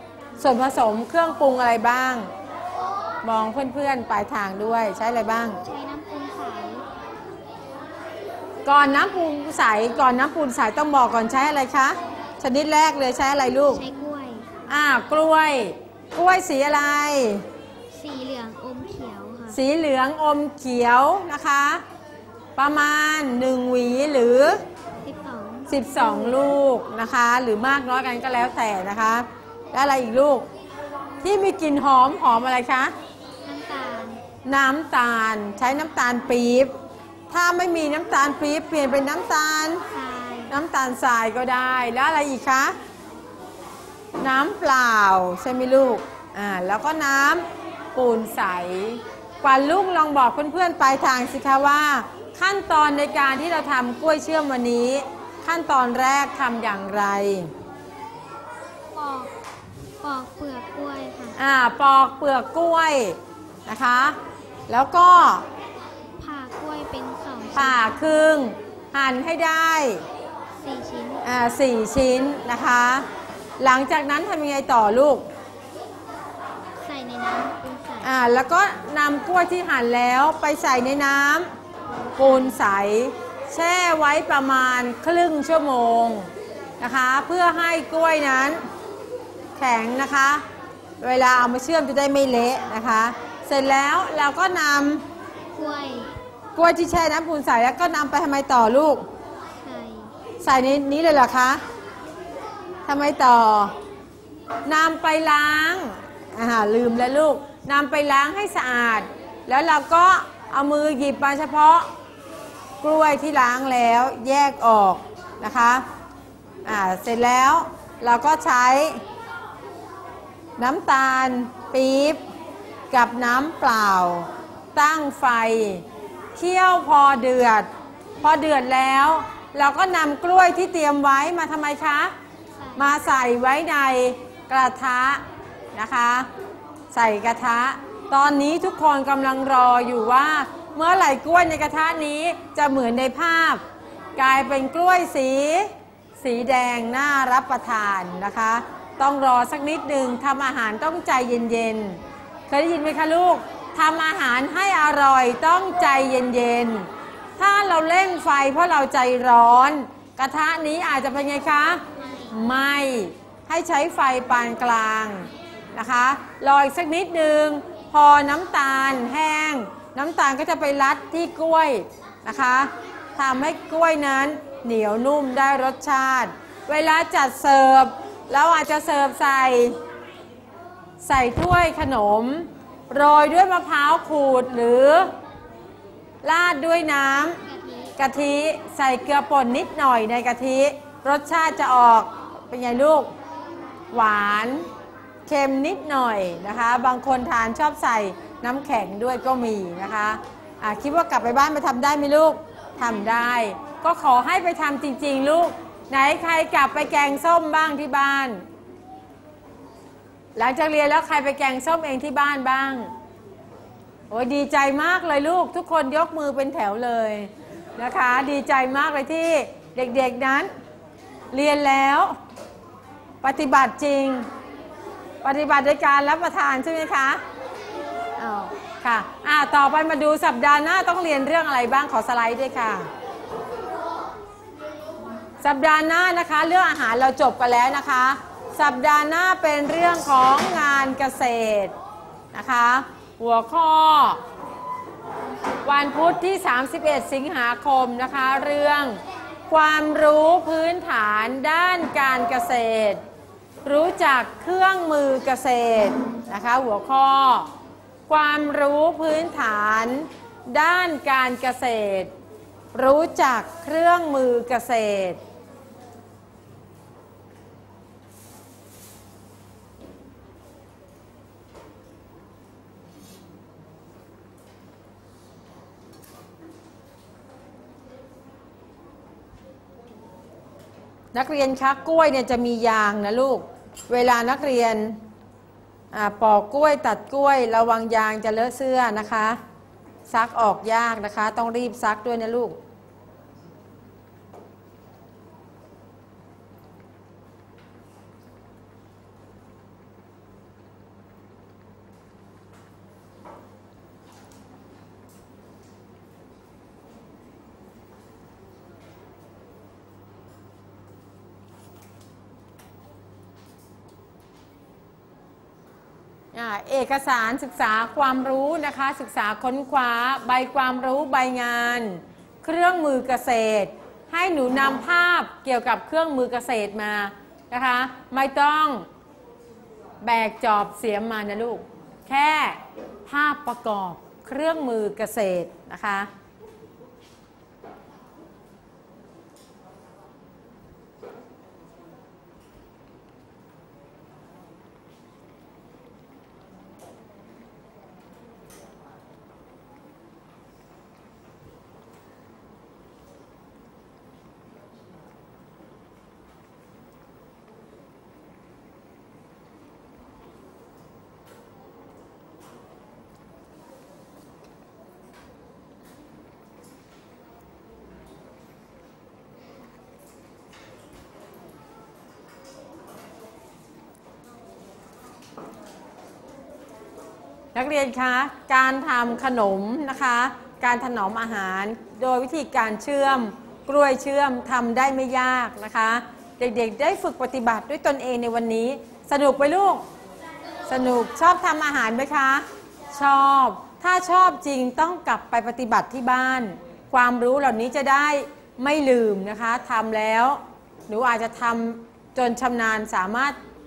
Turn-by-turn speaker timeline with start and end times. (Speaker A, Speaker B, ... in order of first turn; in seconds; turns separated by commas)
Speaker A: 0.4-2.3, Speaker A: 3.2-5.6, Speaker B: 5.6-6.9, Speaker A: 8.6-13.8, Speaker B: 13.7-14.6, Speaker A: 14.7-17.4, Speaker B: 17.9-19.6, Speaker A: 19.5-21.8, Speaker A: 22.6-24.6, Speaker B: 25.0-26.4, Speaker A: 25.7-30.5, Speaker A: 31.2-32.9, Speaker B: 33.4-34.2, Speaker A: 34.5-36.7, Speaker A: 37.3-39.8, Speaker B: 39.9-40.5, Speaker A: 40.5-42.8, Speaker A: 44.2-57.5, Speaker B: 58.9-59.3, Speaker B: 60.0-61.4, Speaker A: 61.4-64.2, Speaker A: 64.7-65.5, Speaker B: 66.2-68.0, Speaker A: 67.5-70.0, Speaker B: 70.6-71.2, Speaker A: 71.2-73.0, Speaker A: 73.6-75.2, Speaker B: 76.8-78.1, Speaker A: 78.0-81.5, Speaker B: 81.9-82.6, Speaker A: 82.2-88.6, Speaker A: 89.6-90.4, Speaker A: 91.0-95.0, Speaker B: 95.5-96.1, Speaker A: 96.5-99.0, Speaker B: 99.6-100.1, Speaker A: 100.4-101.6, Speaker A: 102.8-103.7, Speaker A: 104.7-111.9, Speaker A: 112.8-115.8, Speaker A: 116.6-119.0, Speaker A: 120.6-122.2, Speaker A: 122.9-127.7, Speaker A: 128.2-132.1, Speaker B: 132.6-132.9, Speaker A: 132.8-135.2, Speaker A: 135.7-136.3, Speaker A: 136.9-143.6, Speaker A: 144.2-179.8, Speaker A: 181.0-185.1, Speaker A: 186.2-187.4, Speaker B: 187.3-187.9, Speaker A: 188.0-193.1, Speaker A: 193.9-194.7, Speaker A: 195.2-208.4, Speaker B: 202.8-203.2, Speaker A: 210.3-212.9, Speaker A: 214.1-220.5, Speaker A: 221.3-222.2, Speaker A: 223.2-224.3, Speaker A: 225.2-227.2, Speaker A: 228.2-232.9, Speaker A: 235.4-241.7, Speaker A: 242.3-244.2, Speaker A: 245.6-253.0, Speaker A: 253.6-257.5, Speaker A: 258.1-262.1, Speaker A: 262.7-265.2, Speaker A: 281.1-285.0, Speaker A: 285.9-289.4, Speaker A: 290.1-292.6, Speaker A: 316.3-328.9, Speaker A: 330.0-336.1, Speaker A: 377.5-389.8, Speaker A: 390.7-403.4